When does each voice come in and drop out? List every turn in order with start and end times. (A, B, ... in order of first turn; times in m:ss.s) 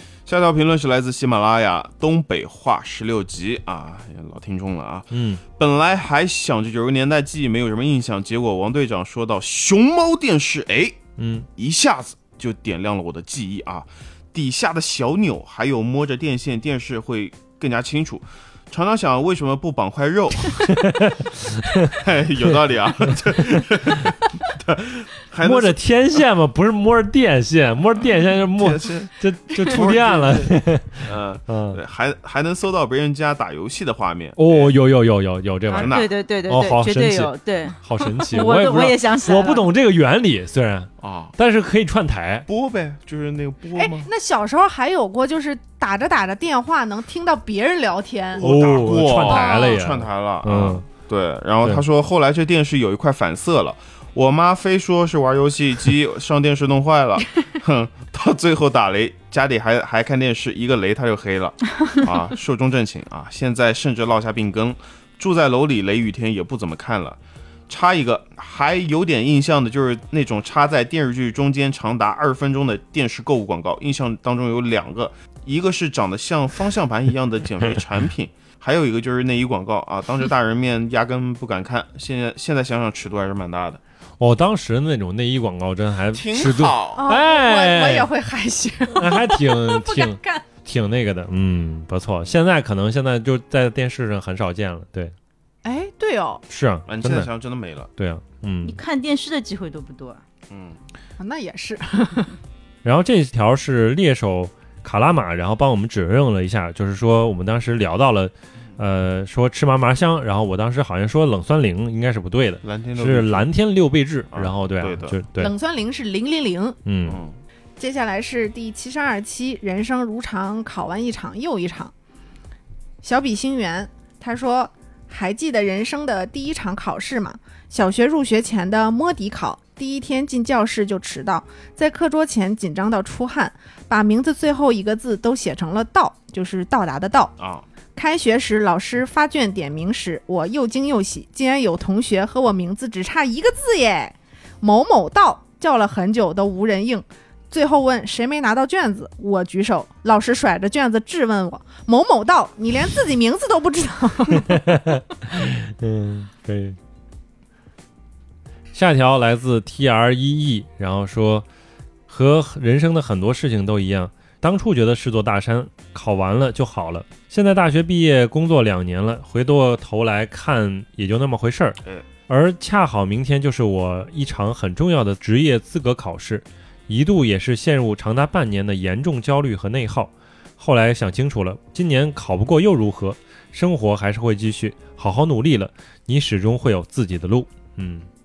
0:00.2-0:11.0 A
0:05.1-0:05.4 B
0:11.2-0:11.5 B
0:11.6-0:20.7 A
0:20.7-0:21.9 B
0:21.9-0:25.8 A
0:25.4-0:31.8 B
0:28.6-0:34.7 A
0:34.4-0:42.5 B
0:35.7-0:39.6 C
0:35.7-0:36.1 A
0:41.0-0:41.4 A
0:42.5-0:44.1 A
0:43.7-0:48.5 D
0:48.4-1:23.8 A
0:48.4-0:50.8 B
0:49.2-0:49.8 D
1:24.2-1:28.1 B
1:26.1-1:27.0 A
1:27.0-1:30.4 D
1:28.9-1:35.1 B
1:35.6-1:36.4 D
1:36.5-1:37.3 B
1:36.9-1:37.9 A
1:38.0-1:38.8 B
1:38.6-1:40.2 C
1:40.5-1:40.8 A
1:41.2-1:42.3 D
1:42.8-1:55.5 B
1:52.6-1:53.5 A
1:54.3-1:55.2 A
1:55.4-1:56.8 D
1:56.8-1:57.2 B
1:57.0-1:57.4 A
1:57.8-2:01.9 D
2:03.0-2:17.3 D
2:17.4-2:17.6 A
2:17.9-2:34.6 D
2:34.4-2:36.8 B
2:38.7-2:41.4 B
2:42.1-2:51.8 B
2:52.3-3:08.1 B